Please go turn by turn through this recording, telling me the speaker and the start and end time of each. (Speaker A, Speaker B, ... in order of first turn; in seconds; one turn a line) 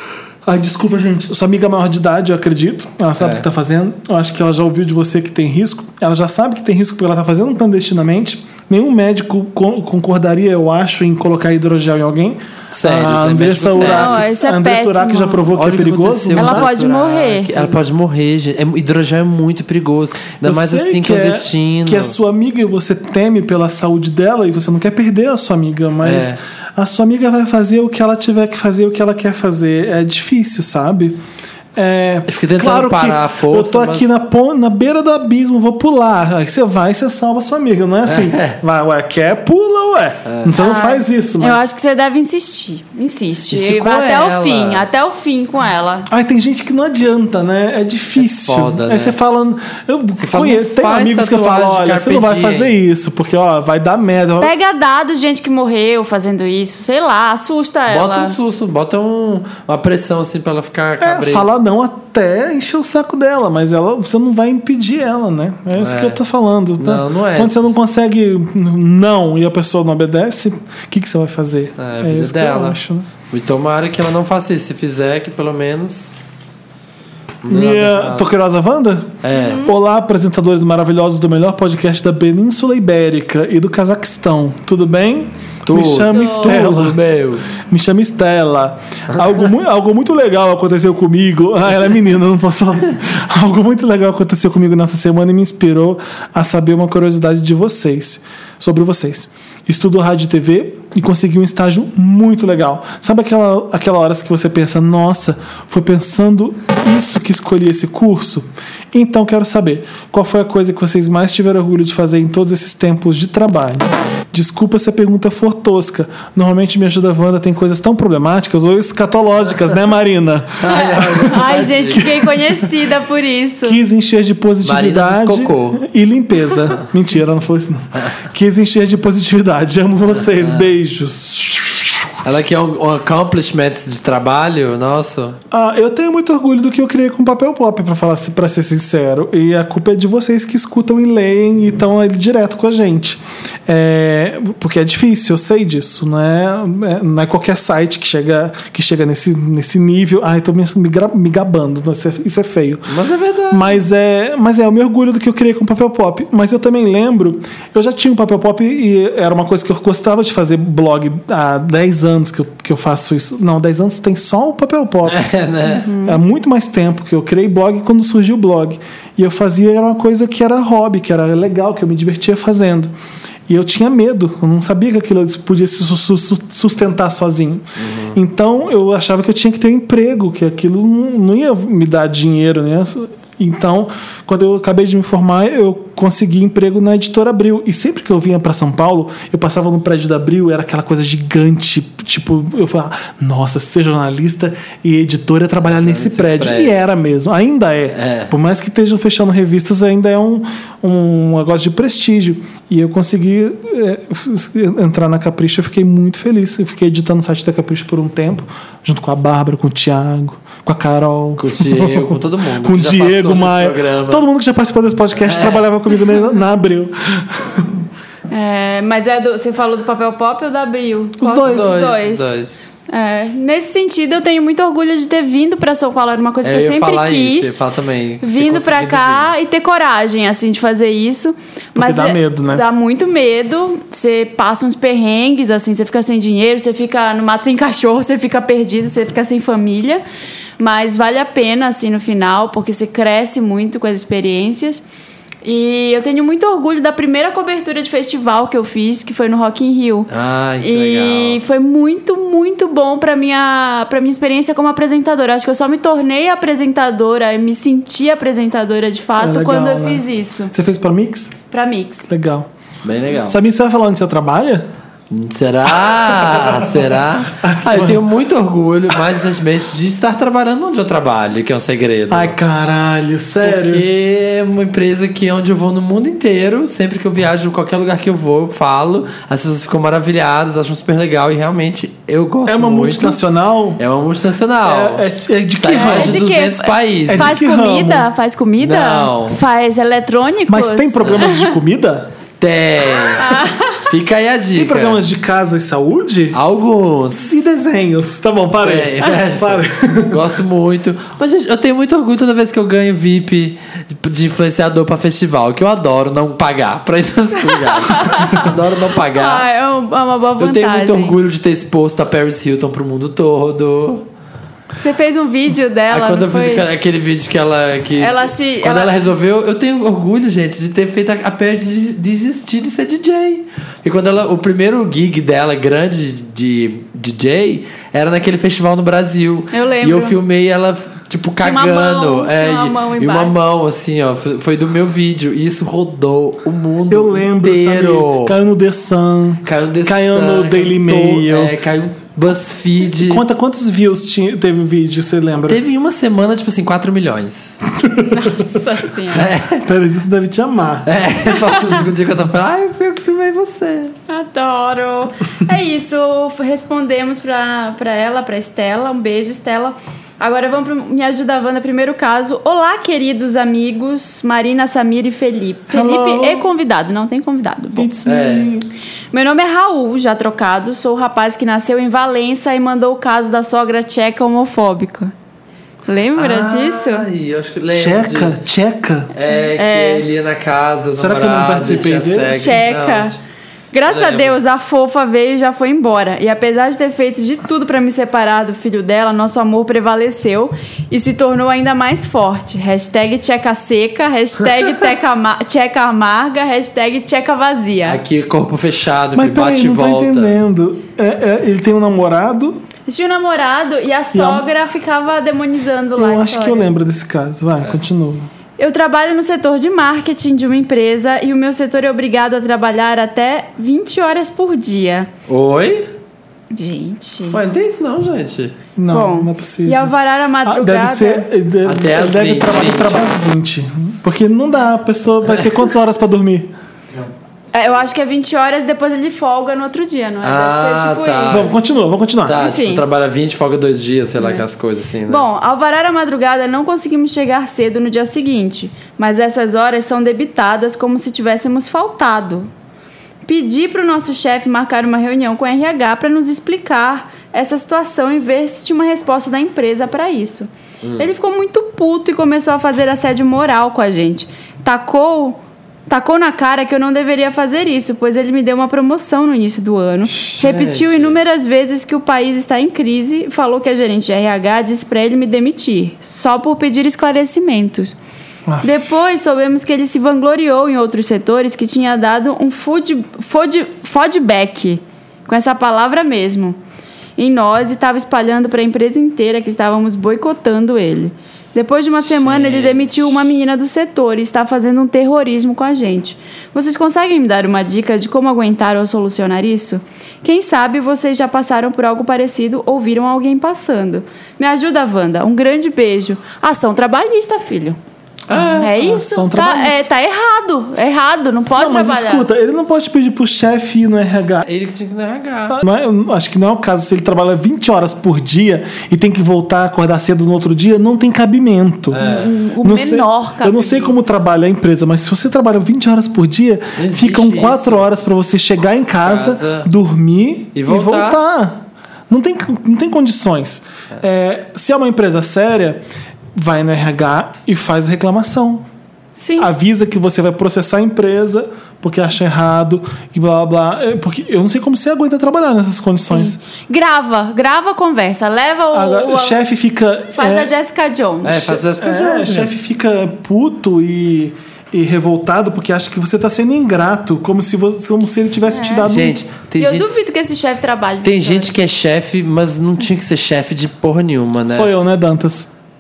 Speaker A: 0.5-16.8
Speaker B: 3.2-3.4
Speaker B: 12.7-14.3
Speaker C: 13.8-15.4
Speaker B: 15.5-22.2
Speaker C: 16.4-17.8
Speaker A: 20.4-31.2
Speaker B: 26.0-26.4
Speaker A: 31.8-41.7
Speaker B: 32.3-34.1
Speaker B: 38.1-38.6
Speaker B: 40.3-40.6
Speaker C: 40.6-46.1
Speaker B: 43.5-44.9
Speaker A: 46.1-54.5
Speaker B: 48.2-49.2
Speaker B: 50.2-52.8
Speaker C: 54.4-58.4
Speaker B: 57.9-61.5
Speaker A: 61.0-73.1
Speaker B: 65.8-66.2
Speaker B: 66.8-67.7
Speaker B: 71.8-72.8
Speaker B: 73.3-76.2
Speaker B: 77.4-78.3
Speaker A: 77.5-87.0
Speaker B: 79.2-79.6
Speaker C: 79.3-79.7
Speaker B: 85.7-87.5
Speaker C: 86.1-86.5
Speaker A: 87.5-120.7
Speaker B: 120.6-122.3
Speaker C: 120.7-123.8
Speaker A: 123.6-132.2
Speaker B: 124.6-125.8
Speaker B: 130.4-130.7
Speaker B: 132.2-135.4
Speaker A: 135.5-152.9
Speaker B: 152.9-153.8
Speaker A: 153.5-165.3
Speaker B: 165.1-165.9
Speaker C: 165.7-166.2
Speaker A: 165.9-172.9
Speaker A: 173.5-217.8
Speaker B: 177.8-178.2
Speaker B: 195.8-196.8
Speaker B: 197.9-198.3
Speaker B: 211.4-214.3
Speaker B: 215.2-215.7
Speaker C: 218.3-222.4
Speaker A: 221.2-221.8
Speaker B: 221.4-222.6
Speaker C: 222.9-227.6
Speaker B: 226.4-229.3
Speaker C: 228.2-240.0
Speaker A: 231.8-232.6
Speaker C: 240.6-244.8
Speaker C: 245.4-250.1
Speaker B: 250.1-251.4
Speaker C: 250.6-260.5
Speaker A: 259.2-261.4
Speaker C: 261.5-262.1
Speaker A: 262.1-262.5
Speaker B: 262.8-263.4
Speaker A: 263.3-264.7
Speaker B: 265.1-272.4
Speaker A: 265.7-268.0
Speaker A: 272.1-273.9
Speaker B: 273.4-283.2
Speaker A: 282.4-283.8
Speaker B: 283.8-285.1
Speaker A: 284.6-286.2
Speaker B: 285.6-287.4
Speaker C: 285.8-291.5
Speaker A: 287.1-288.1
Speaker B: 288.6-289.4
Speaker A: 290.5-292.1
Speaker B: 291.0-291.4
Speaker B: 292.4-295.0
Speaker C: 293.2-293.9
Speaker A: 294.5-296.4
Speaker B: 296.3-297.4
Speaker A: 297.2-300.3
Speaker B: 298.6-309.4
Speaker C: 307.5-308.5
Speaker C: 309.1-311.2
Speaker B: 310.4-314.1
Speaker C: 314.8-316.6
Speaker B: 315.9-338.4
Speaker C: 318.0-318.9
Speaker C: 329.5-330.2
Speaker C: 331.4-333.4
Speaker A: 336.9-341.6
Speaker B: 339.4-343.2
Speaker A: 343.0-345.6
Speaker B: 345.5-347.6
Speaker A: 347.8-348.6
Speaker C: 348.1-349.3
Speaker B: 349.1-349.7
Speaker A: 349.6-350.9
Speaker B: 350.9-353.9
Speaker C: 354.1-367.9
Speaker A: 365.7-366.4
Speaker A: 367.7-368.7
Speaker B: 368.1-368.5
Speaker C: 369.1-375.1
Speaker C: 375.9-377.1
Speaker B: 376.1-378.4
Speaker A: 377.8-379.1
Speaker B: 379.1-383.2
Speaker C: 379.3-380.1
Speaker A: 380.9-382.6
Speaker C: 382.3-383.1
Speaker C: 383.7-398.0
Speaker B: 383.9-384.4
Speaker B: 397.9-400.4
Speaker A: 399.1-402.6
Speaker C: 402.9-406.7
Speaker A: 404.1-404.4
Speaker A: 405.9-408.3
Speaker C: 408.6-415.1
Speaker B: 415.3-415.9
Speaker C: 416.5-417.4
Speaker B: 417.3-418.5
Speaker A: 418.8-419.9
Speaker C: 418.9-421.3
Speaker A: 420.4-426.5
Speaker B: 421.6-423.1
Speaker B: 425.3-425.6
Speaker C: 427.5-431.4
Speaker B: 430.2-431.6
Speaker A: 431.3-432.4
Speaker B: 432.2-435.3
Speaker C: 432.4-432.8
Speaker C: 434.2-434.4
Speaker C: 435.1-442.5
Speaker C: 443.3-467.9
Speaker B: 450.8-451.1
Speaker B: 460.1-461.2
Speaker A: 468.5-468.9
Speaker C: 468.6-476.6
Speaker C: 477.2-497.8
Speaker B: 482.0-483.0
Speaker B: 498.3-498.7
Speaker A: 498.3-499.9
Speaker C: 498.5-502.3
Speaker A: 501.6-504.5
Speaker B: 504.4-505.6
Speaker A: 505.5-512.0
Speaker B: 511.9-512.3
Speaker C: 512.0-514.0
Speaker A: 512.6-525.8
Speaker B: 516.8-517.9
Speaker B: 519.0-519.7
Speaker B: 520.5-521.2
Speaker A: 526.4-528.7
Speaker C: 529.2-529.5
Speaker A: 529.4-536.4
Speaker C: 536.1-539.4
Speaker A: 538.7-540.5
Speaker C: 540.1-541.6
Speaker B: 541.2-542.5
Speaker A: 541.3-549.2
Speaker C: 548.5-548.9
Speaker B: 548.9-549.9
Speaker C: 549.6-551.6
Speaker B: 551.0-554.7
Speaker A: 554.5-555.5